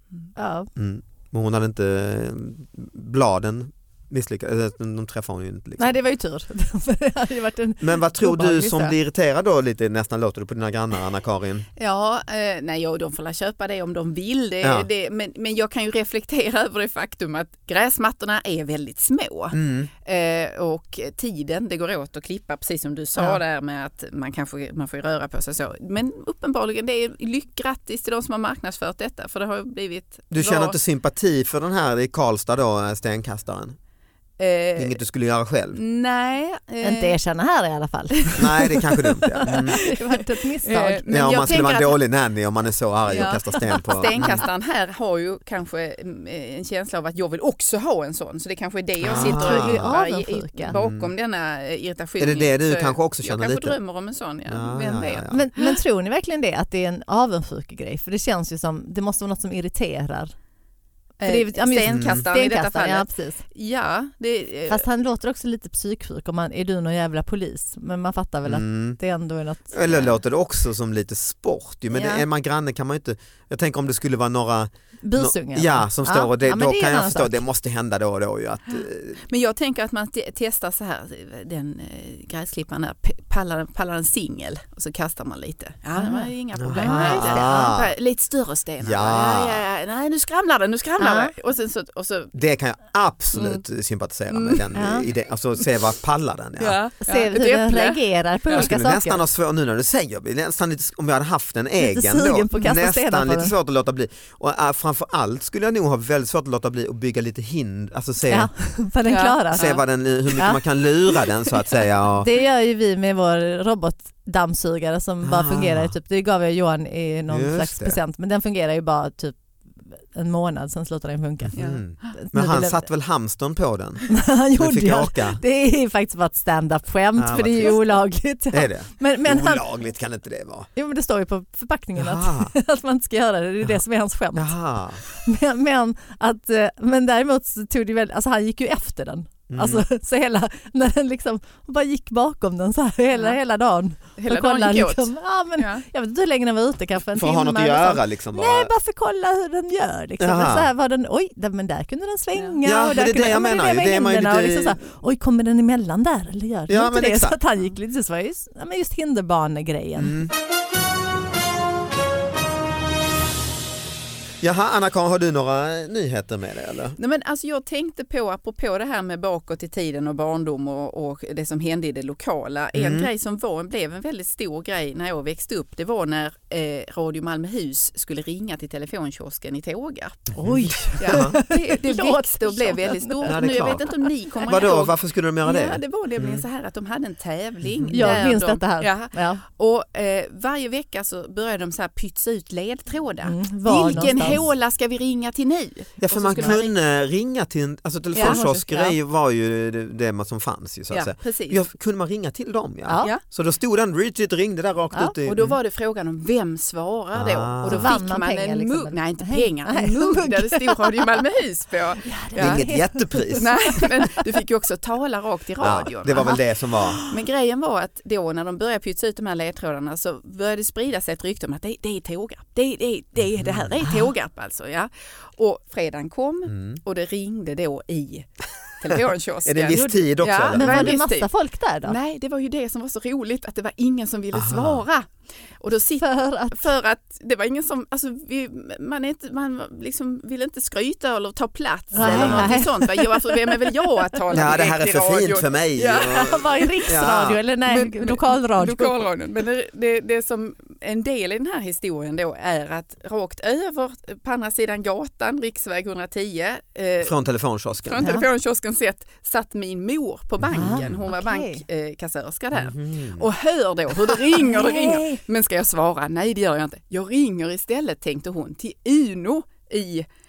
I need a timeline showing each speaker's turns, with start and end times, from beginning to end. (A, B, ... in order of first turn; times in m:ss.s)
0:00.4-0:00.7 A
0:00.8-0:05.9 B
0:05.8-0:08.9 A
0:07.8-0:11.6 B
0:11.8-0:30.8 C
0:14.6-0:14.9 B
0:19.5-0:19.9 B
0:30.3-0:33.8 B
0:34.4-0:35.0 C
0:34.8-0:35.8 B
0:35.7-0:37.2 C
0:36.8-0:41.0 A
0:38.4-0:39.8 B
0:39.4-0:42.0 C
0:41.1-0:44.4 B
0:43.1-0:55.8 C
0:49.0-0:49.9 B
0:49.1-0:50.8 A
0:50.7-0:51.1 B
0:52.2-0:53.8 B
0:54.5-0:55.4 B
0:55.3-1:00.3 A
1:01.2-1:04.8 C
1:01.2-1:03.4 A
1:01.9-1:02.2 B
1:04.7-1:10.2 A
1:08.5-1:09.0 B
1:09.7-1:19.2 B
1:12.0-1:12.2 C
1:15.0-1:17.4 A
1:18.7-1:32.3 C
1:26.0-1:27.5 A
1:26.6-1:27.9 B
1:28.8-1:29.6 B
1:31.0-1:31.3 A
1:32.3-1:36.8 B
1:33.3-1:33.6 C
1:34.3-1:34.6 C
1:34.7-1:35.1 A
1:36.6-1:38.7 C
1:37.0-1:39.2 A
1:38.5-1:48.5 B
1:41.8-1:43.5 A
1:48.3-1:49.8 A
1:49.1-1:49.8 C
1:49.5-1:52.3 B
1:50.4-1:50.6 A
1:52.2-1:59.4 A
1:55.2-1:55.9 B
1:57.3-1:58.0 B
1:59.9-2:01.6 A
2:01.4-2:05.4 B
2:01.5-2:02.1 C
2:02.1-2:02.8 A
2:04.1-2:09.6 A
2:07.2-2:08.0 B
2:08.5-2:10.7 B
2:10.7-2:14.5 A
2:12.0-2:12.5 B
2:14.3-2:15.0 B
2:15.0-2:40.2 A
2:19.5-2:19.8 B
2:24.2-2:25.8 C
2:27.1-2:28.7 B
2:30.2-2:30.7 B
2:32.6-2:34.8 B
2:36.7-2:37.4 B
2:40.0-2:40.3 B
2:44.4-2:47.0 B
2:47.0-3:00.3 C
2:52.7-2:53.1 B
3:00.4-3:04.0 A
3:00.4-3:01.4 B
3:01.0-3:16.7 C
3:03.2-3:03.8 B
3:04.4-3:06.4 B
3:07.7-3:08.2 B
3:07.9-3:09.4 A
3:13.2-3:14.4 A
3:16.0-3:25.6 B
3:18.1-3:18.4 C
3:18.2-3:18.9 A
3:20.9-3:21.6 C
3:22.9-3:23.1 A
3:25.2-3:32.6 C
3:27.1-3:28.0 B
3:27.6-3:31.1 A
3:32.0-3:34.3 A
3:32.3-3:33.5 B
3:33.4-3:36.4 C
3:35.6-3:37.0 B
3:36.8-3:37.1 A
3:37.0-3:51.3 C
3:43.3-3:43.8 B
3:46.5-3:46.8 B
3:49.4-3:51.0 B
3:49.7-3:52.0 A
3:51.8-4:06.8 C
3:54.3-3:54.8 B
3:56.0-3:56.7 A
4:01.9-4:03.9 A
4:02.0-4:02.6 B
4:04.3-4:07.4 B
4:06.0-4:09.0 A
4:07.7-4:17.1 C
4:17.0-4:18.1 B
4:17.8-4:30.1 C
4:18.0-4:18.3 A
4:20.4-4:21.0 B
4:20.5-4:21.6 A
4:22.5-4:23.3 B
4:24.4-4:25.2 A